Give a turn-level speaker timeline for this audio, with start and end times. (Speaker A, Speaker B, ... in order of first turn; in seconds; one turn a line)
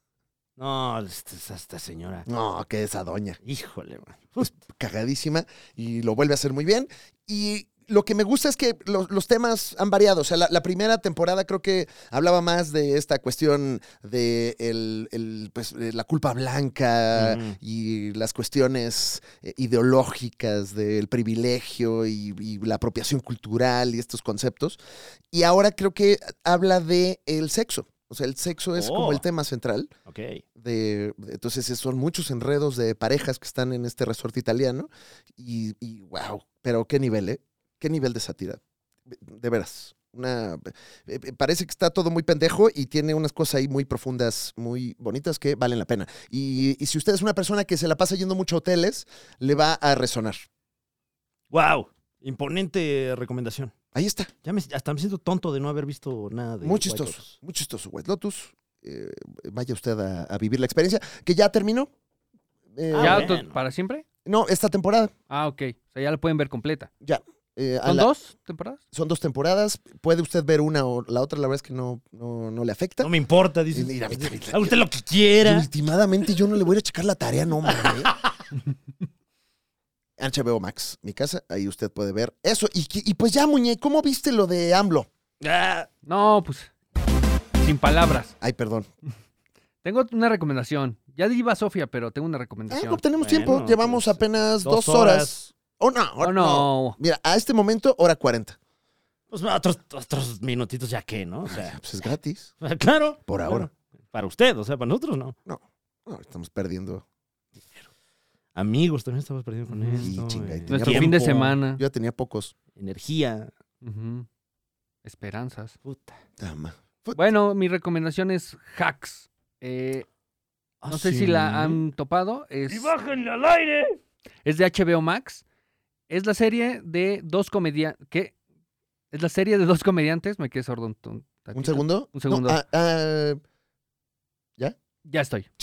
Speaker A: 0.6-2.3
Speaker B: 2.3-3.4
Speaker A: 3.4-4.5
Speaker B: 4.4-24.8
Speaker A: 17.1-17.6
Speaker B: 25.3-29.9
Speaker A: 28.8-29.2
Speaker A: 30.1-30.4
Speaker B: 30.6-50.5
Speaker A: 51.5-53.7
Speaker B: 53.9-54.3
Speaker A: 54.4-57.4
Speaker B: 56.6-61.9
Speaker B: 62.7-63.3
Speaker A: 62.9-63.5
Speaker C: 63.0-64.0
Speaker B: 64.2-65.1
Speaker C: 65.3-66.9
Speaker B: 67.0-68.1
Speaker C: 67.8-68.8
Speaker B: 68.9-73.1
Speaker A: 73.0-75.7
Speaker B: 73.7-74.8
Speaker B: 75.4-78.1
Speaker A: 77.8-78.2
Speaker B: 80.2-85.1
Speaker A: 85.4-85.9
Speaker C: 86.0-86.7
Speaker C: 87.6-88.3
Speaker B: 88.4-88.9
Speaker C: 89.8-93.0
Speaker B: 92.7-98.6
Speaker A: 93.2-95.5
Speaker C: 96.2-97.0
Speaker A: 99.3-101.8
Speaker B: 101.5-102.5
Speaker A: 102.6-105.3
Speaker B: 103.3-103.7
Speaker B: 105.5-107.0
Speaker B: 107.5-107.8
Speaker A: 108.5-111.6
Speaker C: 109.7-110.1
Speaker B: 110.0-112.5
Speaker C: 110.7-111.8
Speaker A: 112.8-113.5
Speaker C: 113.8-114.3
Speaker C: 115.0-115.8
Speaker A: 115.8-116.2
Speaker B: 116.4-117.2
Speaker C: 117.1-120.0
Speaker A: 120.8-121.8
Speaker C: 120.9-122.9
Speaker A: 122.7-124.0
Speaker C: 124.4-125.4
Speaker C: 126.1-128.3
Speaker C: 129.1-132.6
Speaker B: 131.5-133.4
Speaker C: 135.0-135.5